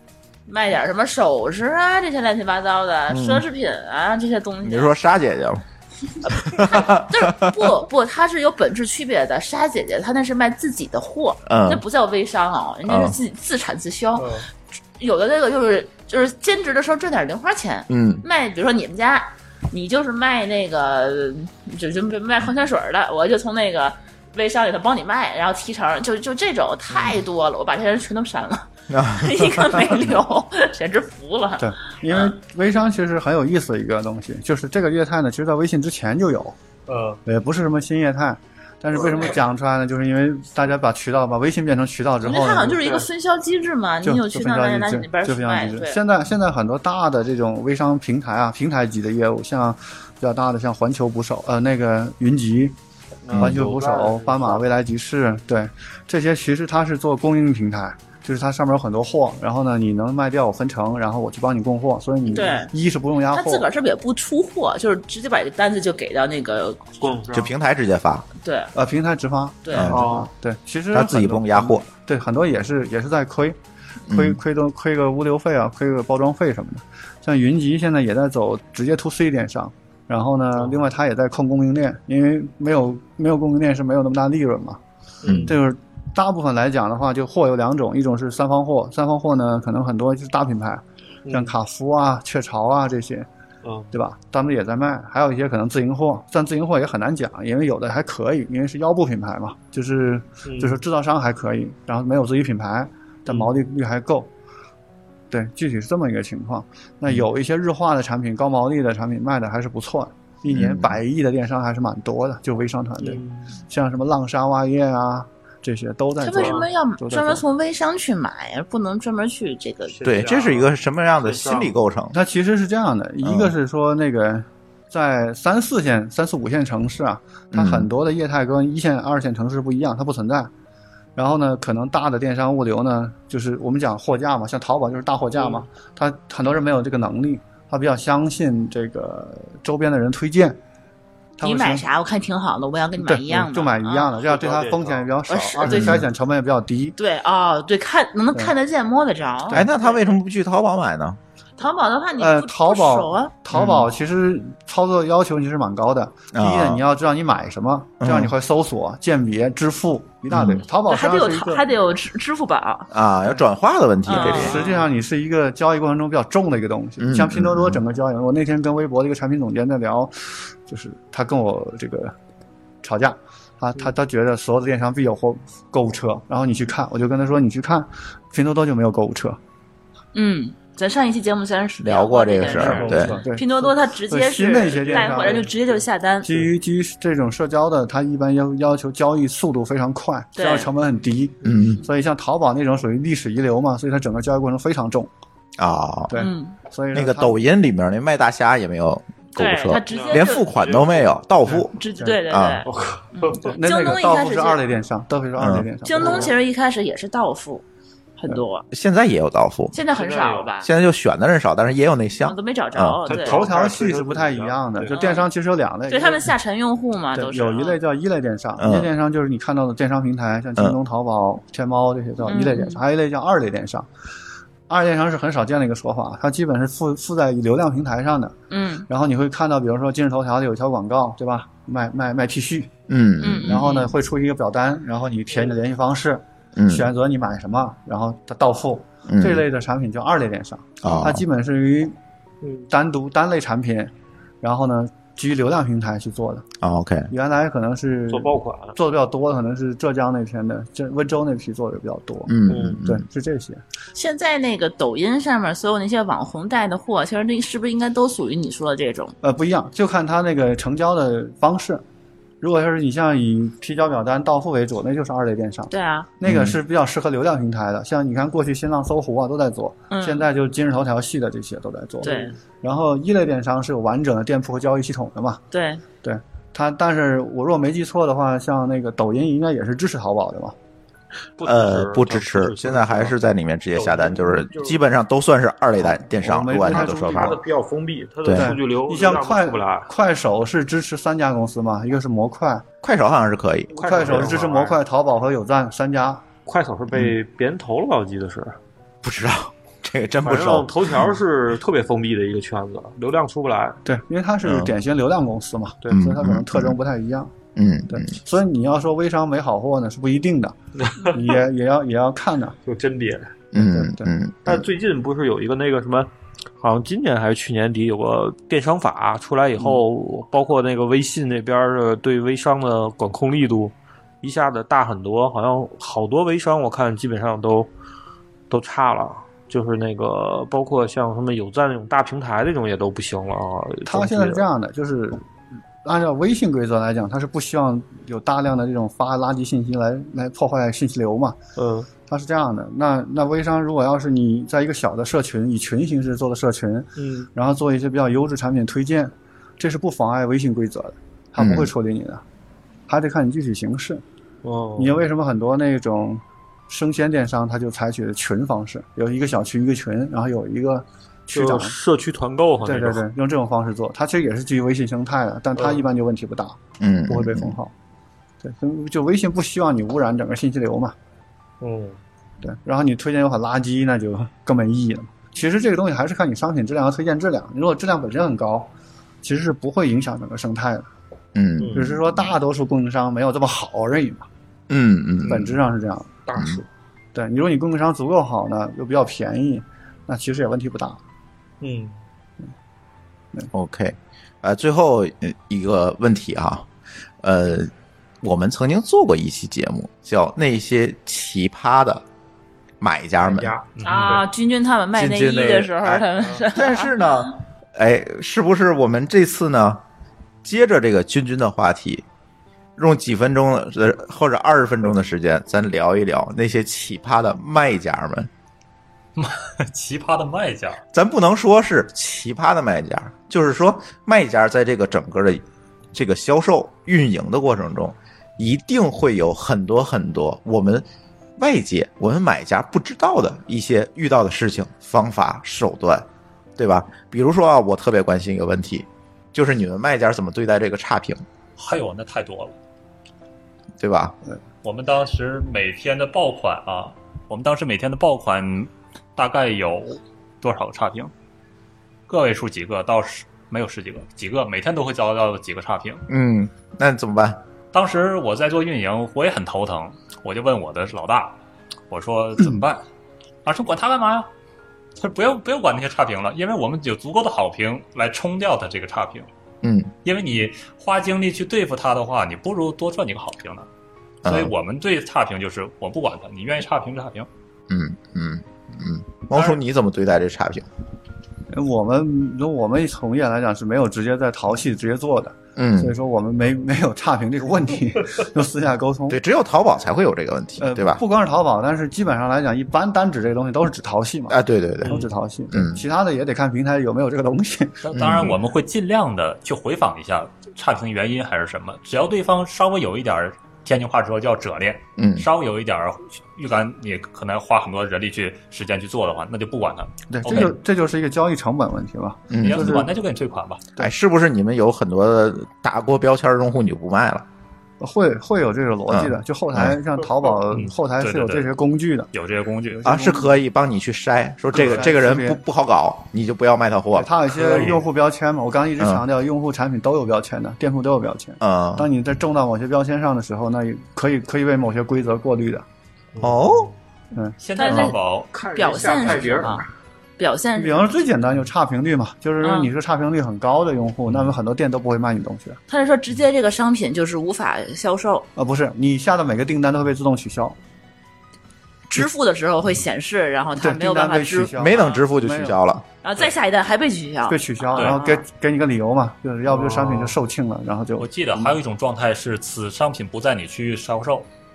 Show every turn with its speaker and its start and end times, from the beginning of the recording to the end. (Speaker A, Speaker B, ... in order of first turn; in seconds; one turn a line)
Speaker A: 0.5-4.9
Speaker B: 3.1-3.4
Speaker B: 4.6-5.6
Speaker A: 6.2-14.4
Speaker B: 6.3-7.6
Speaker B: 11.4-11.8
Speaker B: 12.8-13.2
Speaker C: 14.2-14.5
Speaker A: 15.0-32.3
Speaker B: 17.9-18.2
Speaker B: 28.9-30.0
Speaker D: 31.6-36.5
Speaker C: 36.9-37.2
Speaker D: 37.2-42.8
Speaker A: 42.2-46.0
Speaker C: 42.7-43.1
Speaker D: 44.0-52.8
Speaker C: 53.2-54.6
Speaker B: 53.3-53.6
Speaker D: 53.3-63.7
Speaker A: 62.3-62.7
Speaker A: 63.3-67.1
Speaker C: 67.0-67.5
Speaker B: 67.3-68.2
Speaker A: 68.4-68.7
Speaker D: 68.7-73.6
Speaker A: 69.6-69.9
Speaker B: 69.7-70.1
Speaker C: 69.9-70.3
Speaker B: 70.9-71.8
Speaker B: 74.1-74.4
Speaker D: 74.1-84.8
Speaker C: 85.2-85.6
Speaker B: 85.2-85.5
Speaker D: 85.4-93.3
Speaker C: 91.3-91.5
Speaker C: 93.6-93.9
Speaker D: 93.9-104.3
Speaker C: 100.4-100.8
Speaker D: 105.3-117.4
Speaker B: 110.5-111.0
Speaker C: 113.0-113.4
Speaker A: 116.2-120.0
Speaker C: 116.4-116.7
Speaker C: 119.9-121.8
Speaker B: 120.0-122.2
Speaker D: 122.1-130.5
Speaker B: 123.2-123.5
Speaker B: 127.5-127.9
Speaker D: 131.2-140.6
Speaker D: 141.4-141.8
Speaker A: 141.4-144.1
Speaker D: 143.0-147.0
Speaker C: 144.2-145.1
Speaker A: 145.3-146.0
Speaker B: 145.7-146.0
Speaker A: 147.0-150.0
Speaker B: 149.5-151.2
Speaker A: 151.6-153.3
Speaker D: 152.2-161.7
Speaker B: 153.5-153.8
Speaker B: 156.3-156.8
Speaker B: 158.0-158.3
Speaker B: 160.3-160.6
Speaker A: 160.9-162.9
Speaker B: 162.9-164.6
Speaker A: 164.1-164.8
Speaker D: 164.1-172.1
Speaker B: 167.0-167.8
Speaker D: 172.8-179.4
Speaker A: 180.1-186.5
Speaker B: 181.8-183.2
Speaker C: 182.5-183.2
Speaker D: 182.5-185.5
Speaker C: 184.6-185.8
Speaker D: 186.2-195.1
Speaker A: 190.3-190.7
Speaker B: 191.4-191.8
Speaker B: 195.6-196.1
Speaker D: 196.1-197.4
Speaker A: 196.1-196.6
Speaker B: 196.9-202.6
Speaker A: 199.3-200.5
Speaker C: 199.9-201.1
Speaker D: 201.5-202.2
Speaker A: 201.7-204.6
Speaker C: 202.6-203.5
Speaker D: 203.4-206.3
Speaker B: 205.4-205.7
Speaker A: 205.8-207.6
Speaker C: 206.0-206.3
Speaker A: 208.2-208.7
Speaker B: 208.7-209.8
Speaker A: 209.7-210.7
Speaker C: 209.9-210.5
Speaker B: 210.6-213.0
Speaker A: 212.2-213.5
Speaker C: 213.1-215.0
Speaker D: 213.1-216.3
Speaker A: 214.9-215.3
Speaker A: 215.9-217.8
Speaker D: 217.1-223.9
Speaker B: 218.6-218.9
Speaker A: 222.2-222.8
Speaker D: 224.7-228.3
Speaker A: 228.5-228.9
Speaker D: 228.9-232.7
Speaker B: 232.9-233.6
Speaker A: 233.2-233.9
Speaker D: 233.4-241.9
Speaker B: 236.6-236.9
Speaker B: 239.1-239.4
Speaker B: 240.8-241.2
Speaker C: 242.4-242.7
Speaker D: 242.7-246.4
Speaker B: 246.6-247.1
Speaker D: 247.1-253.6
Speaker C: 248.1-248.7
Speaker B: 252.3-253.0
Speaker C: 252.5-252.8
Speaker A: 253.9-259.1
Speaker D: 259.2-261.8
Speaker D: 262.4-275.4
Speaker A: 265.7-266.1
Speaker B: 266.2-266.6
Speaker A: 269.9-270.3
Speaker A: 272.0-272.3
Speaker C: 272.0-272.3
Speaker A: 275.5-275.8
Speaker D: 276.0-280.5
Speaker C: 281.4-283.1
Speaker B: 281.4-287.4
Speaker C: 283.7-284.8
Speaker D: 285.8-287.4
Speaker C: 286.5-289.9
Speaker B: 288.2-288.5
Speaker D: 288.3-292.6
Speaker B: 292.8-294.4
Speaker C: 293.7-294.8
Speaker D: 293.8-296.2
Speaker C: 296.4-298.6
Speaker B: 296.9-297.1
Speaker B: 299.0-301.1
Speaker C: 300.2-303.8
Speaker D: 303.8-307.3
Speaker B: 304.4-304.7
Speaker B: 305.9-306.8
Speaker B: 307.5-308.2
Speaker D: 307.9-312.6
Speaker C: 310.8-311.4
Speaker C: 312.6-313.3
Speaker B: 313.5-314.6
Speaker D: 313.5-314.1
Speaker C: 314.4-327.7
Speaker C: 328.5-334.4
Speaker D: 333.9-335.2
Speaker D: 335.8-341.4
Speaker C: 341.6-341.9
Speaker D: 342.1-352.2
Speaker C: 347.0-347.3
Speaker B: 351.4-351.7
Speaker D: 352.9-354.0
Speaker C: 354.4-355.0
Speaker D: 354.8-361.8
Speaker C: 361.3-363.0
Speaker D: 362.6-367.7
Speaker B: 366.8-367.5
Speaker D: 368.4-370.9
Speaker C: 371.6-372.0
Speaker D: 372.4-378.7
Speaker D: 379.2-380.9
Speaker B: 381.3-382.2
Speaker C: 381.6-382.0
Speaker D: 381.7-384.3
Speaker B: 384.7-385.6
Speaker D: 385.2-386.1
Speaker C: 386.2-386.6
Speaker D: 387.1-391.0
Speaker C: 391.6-392.0
Speaker B: 393.5-396.7
Speaker B: 397.2-397.7
Speaker B: 398.2-402.0
Speaker B: 402.8-403.5
Speaker C: 403.2-403.8
Speaker E: 403.8-404.2
Speaker A: 403.8-407.1
Speaker B: 404.9-409.8
Speaker C: 406.2-406.4
Speaker B: 410.4-412.0
Speaker B: 412.8-418.3
Speaker E: 419.2-420.8
Speaker B: 420.9-425.4
Speaker B: 425.9-430.8
Speaker B: 431.4-436.0
Speaker B: 436.6-441.2
Speaker E: 441.6-442.6
Speaker B: 443.8-444.1
Speaker E: 444.6-451.1
Speaker E: 452.1-456.1
Speaker B: 456.1-457.4
Speaker E: 457.7-461.4
Speaker E: 461.9-462.8
Speaker E: 463.4-464.3
Speaker E: 465.0-469.3
Speaker B: 469.6-469.9
Speaker E: 470.0-473.7
Speaker B: 474.2-474.5
Speaker E: 474.2-477.3
Speaker B: 477.7-480.6
Speaker E: 479.3-479.6
Speaker D: 481.5-489.2
Speaker B: 485.6-485.9
Speaker B: 489.1-491.0
Speaker D: 490.6-497.8
Speaker B: 494.3-495.8
Speaker E: 497.8-510.6
Speaker B: 497.9-498.4
Speaker B: 505.0-505.3
Speaker D: 510.1-512.9
Speaker B: 512.3-512.9
Speaker E: 512.4-513.6
Speaker B: 513.8-517.2
Speaker D: 517.8-522.1
Speaker B: 518.9-519.8
Speaker E: 520.5-521.5
Speaker E: 522.1-522.8
Speaker D: 522.7-523.4
Speaker B: 522.8-527.1
Speaker D: 524.5-525.4
Speaker D: 526.9-535.6
Speaker B: 531.4-531.9
Speaker C: 536.2-536.7
Speaker B: 536.2-536.7
Speaker D: 537.1-537.9
Speaker E: 537.4-538.3
Speaker A: 537.5-539.7
Speaker C: 538.3-539.7
Speaker A: 540.2-540.9
Speaker D: 540.5-545.6
Speaker A: 542.4-542.7
Speaker A: 545.7-548.2
Speaker D: 548.4-550.6
Speaker A: 551.9-555.0
Speaker D: 553.6-555.5
Speaker B: 554.6-555.8
Speaker A: 556.0-558.2
Speaker D: 557.3-561.6
Speaker E: 557.7-558.0
Speaker C: 559.5-560.2
Speaker E: 561.0-564.3